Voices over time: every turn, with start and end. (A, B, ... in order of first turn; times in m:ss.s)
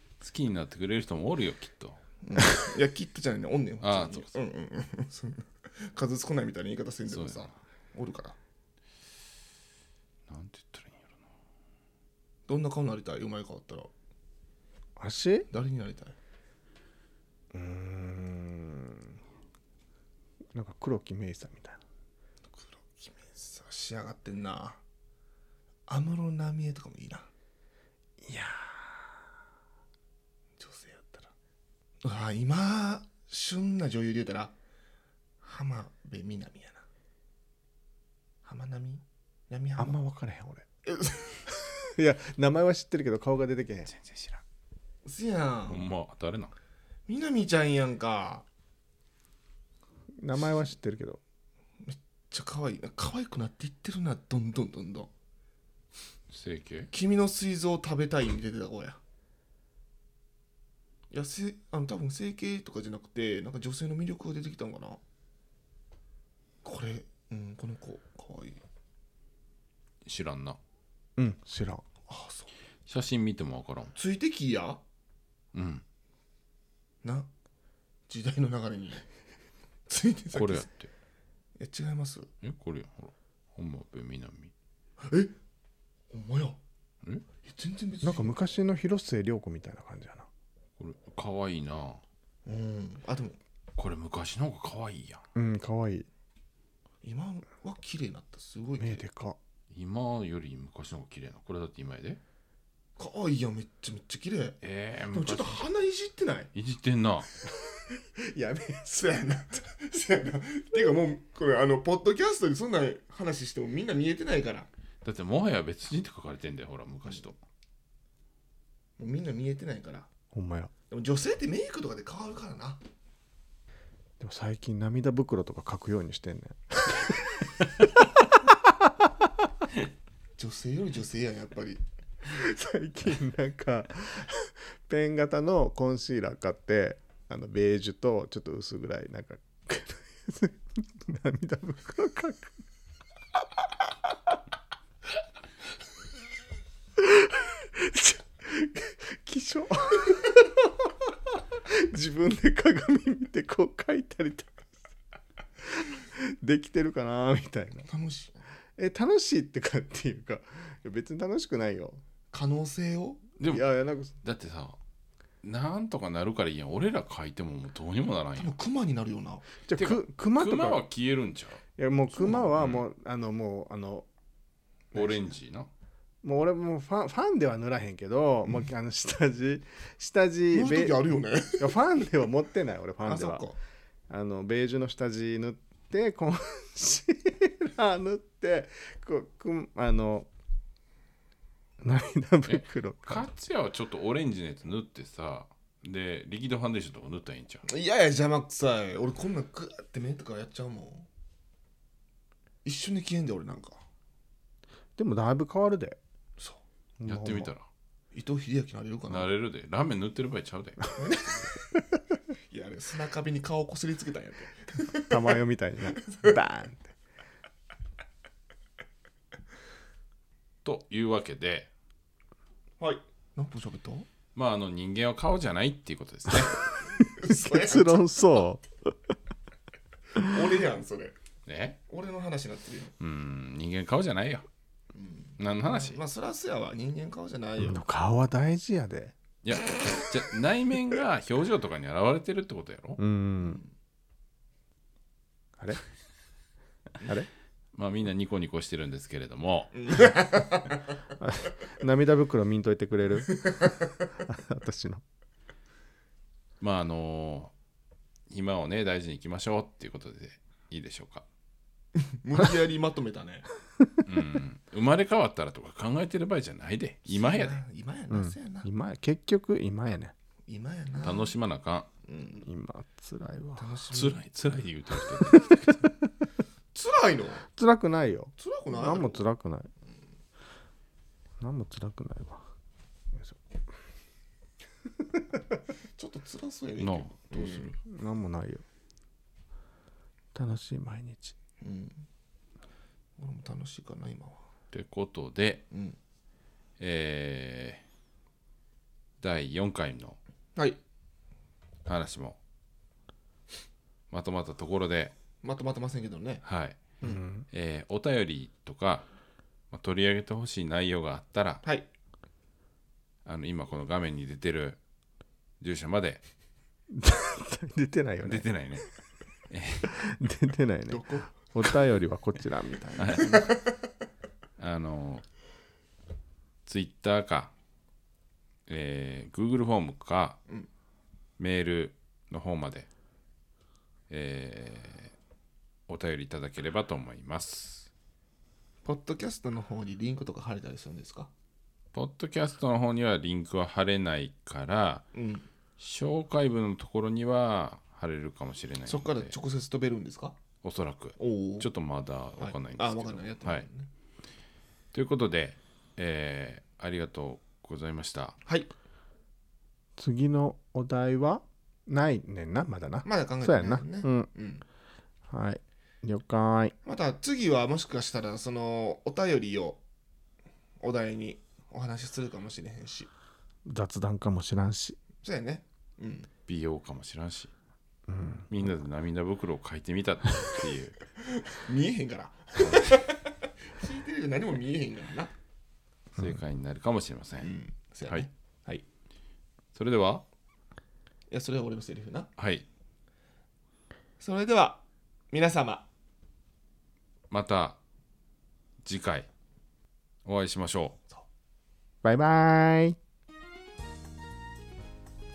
0:00.2-0:02.0 A
0:02.2-0:08.4 B
0:03.8-0:04.3 A
0:07.0-0:07.6 A
0:10.3-0:11.1 A
0:12.5-0:13.9 B
0:15.0-0:15.5 C
0:15.5-0:16.1 B
0:17.5-0:19.1 C
0:20.5-0:21.8 C
0:22.6-0:24.8 B
0:25.9-0:27.3 B
0:28.2-0:29.2 C
0:30.6-0:31.3 B
0:32.0-0:34.5 B
0:35.4-0:36.8 B
0:38.4-0:40.0 B
0:39.8-0:40.6 C
0:40.8-0:41.6 B
0:42.0-0:43.9 C
0:43.8-0:44.4 A
0:45.0-0:45.9 B
0:45.7-0:46.5 A
0:47.1-0:48.4 B
0:50.2-0:51.2 C
0:50.4-0:50.7 B
0:51.8-0:55.1 B
0:56.3-0:56.9 A
0:56.9-0:59.0 B
1:01.1-1:05.0 B
1:06.6-1:08.6 B
1:10.0-1:10.6 A
1:11.2-1:11.8 C
1:12.1-1:12.5 B
1:12.8-1:13.9 A
1:13.9-1:14.8 B
1:15.5-1:15.8 A
1:17.0-1:17.3 B
1:18.1-1:19.0 B
1:19.9-1:20.7 B
1:20.3-1:20.9 A
1:21.6-1:22.3 B
1:22.4-1:24.5 A
1:25.0-1:25.3 B
1:26.1-1:26.6 B
1:27.4-1:28.4 B
1:28.0-1:30.3 C
1:30.8-1:32.0 A
1:32.4-1:33.4 B
1:33.7-1:35.2 A
1:35.3-1:36.1 C
1:37.0-1:39.0 B
1:38.8-1:39.4 C
1:39.7-1:42.2 A
1:43.0-1:44.6 B
1:44.6-1:45.6 A
1:45.1-1:46.5 B
1:46.5-1:47.3 A
1:47.4-1:49.3 C
1:48.9-1:54.7 B
1:55.0-1:57.4 A
1:59.0-2:00.1 B
2:00.3-2:00.7 C
2:00.9-2:02.8 B
2:04.2-2:07.6 C
2:10.4-2:11.8 B
2:12.3-2:22.6 C
2:27.0-2:31.1 C
2:31.7-2:34.7 C
2:35.7-2:37.9 C
2:37.9-2:38.4 B
2:38.8-2:42.0 C
2:42.3-2:43.2 B
2:43.4-2:43.7 A
2:43.5-2:44.1 C
2:44.2-2:44.8 A
2:45.4-2:48.5 A
2:48.4-2:49.4 B
2:49.6-2:50.8 C
2:49.8-2:51.6 A
2:51.8-2:54.1 C
2:52.2-2:52.5 B
2:52.5-2:52.8 A
2:54.9-2:55.3 C
2:54.9-2:55.7 A
2:56.2-3:01.0 C
3:00.5-3:01.7 B
3:01.6-3:03.5 C
3:03.0-3:03.6 B
3:04.1-3:10.3 C
3:11.8-3:13.3 C
3:12.4-3:17.6 A
3:17.6-3:21.1 B
3:22.6-3:23.8 B
3:25.0-3:26.0 C
3:26.4-3:26.6 B
3:27.0-3:27.5 C
3:27.0-3:27.7 A
3:28.1-3:29.3 B
3:29.1-3:30.8 A
3:31.0-3:31.5 B
3:32.5-3:35.4 B
3:35.1-3:36.9 C
3:36.0-3:36.4 B
3:40.6-3:41.7 A
3:42.8-3:44.1 B
3:44.3-3:46.7 A
3:47.2-3:48.1 B
3:47.2-3:48.8 C
3:50.3-3:51.1 B
3:51.4-3:51.8 A
3:51.9-3:52.9 B
3:53.0-3:54.4 A
3:54.9-3:57.8 B
3:55.4-3:56.0 A
3:57.6-3:59.1 C
3:59.4-4:03.0 A
4:03.0-4:03.6 C
4:03.4-4:03.7 B
4:07.7-4:09.7 A
4:09.7-4:10.9 B
4:11.2-4:15.0 C
4:16.6-4:17.5 A
4:18.3-4:21.2 A
4:22.0-4:23.4 B
4:24.0-4:27.6 A
4:27.1-4:28.7 B
4:28.1-4:30.1 C
4:30.5-4:31.3 B
4:31.0-4:31.9 A
4:32.0-4:32.4 B
4:32.4-4:33.8 C
4:33.6-4:34.2 B
4:33.9-4:35.8 A
4:35.1-4:35.8 C
4:36.7-4:37.4 B
4:37.5-4:39.7 C
4:38.4-4:39.2 B
4:41.4-4:42.4 C
4:46.0-4:47.7 B
4:46.8-4:47.8 A
4:47.9-4:48.6 C
4:50.3-4:51.4 C
4:51.6-4:52.0 B
4:53.2-4:54.4 B
4:54.7-4:55.6 A
4:55.7-4:56.0 B
4:56.8-4:57.8 A
4:59.2-5:00.2 A
5:01.8-5:02.4 A
5:04.1-5:05.1 A
5:05.4-5:06.4 B
5:06.4-5:06.8 A
5:07.0-5:07.4 C
5:07.5-5:09.1 A
5:09.7-5:11.6 A
5:11.6-5:11.9 B
5:13.2-5:14.8 A
5:15.6-5:16.2 A
5:16.9-5:18.8 C
5:18.2-5:18.8 A
5:19.5-5:19.9 A
5:19.8-5:23.4 C
5:20.9-5:21.3 B
5:23.0-5:23.5 A
5:24.6-5:25.3 A
5:26.6-5:27.5 A
5:28.7-5:30.4 A
5:31.4-5:32.9 A
5:34.1-5:35.1 A
5:35.9-5:37.9 A
5:38.8-5:41.3 B
5:41.9-5:45.0 A
5:45.1-5:45.4 B
5:45.8-5:49.3 A
5:48.9-5:50.4 B
5:50.6-5:53.6 A
5:51.2-5:51.7 B
5:52.4-5:53.9 B
5:54.9-5:58.4 A
5:58.4-5:58.7 B
6:00.0-6:04.3 C
6:03.0-6:04.6 B
6:05.3-6:06.7 C
6:06.8-6:09.8 B
6:10.8-6:13.1 B
6:13.7-6:15.0 C
6:15.2-6:16.3 B
6:16.5-6:17.5 A
6:18.1-6:18.5 C
6:18.5-6:21.0 A
6:21.4-6:25.3 B
6:22.6-6:23.0 A
6:26.1-6:27.5 A
6:27.4-6:28.8 B
6:29.7-6:30.2 A
6:31.3-6:32.3 B
6:32.4-6:32.6 A
6:34.2-6:35.9 B
6:37.3-6:37.8 A
6:38.8-6:39.3 A
6:40.2-6:41.0 A
6:42.0-6:43.0 C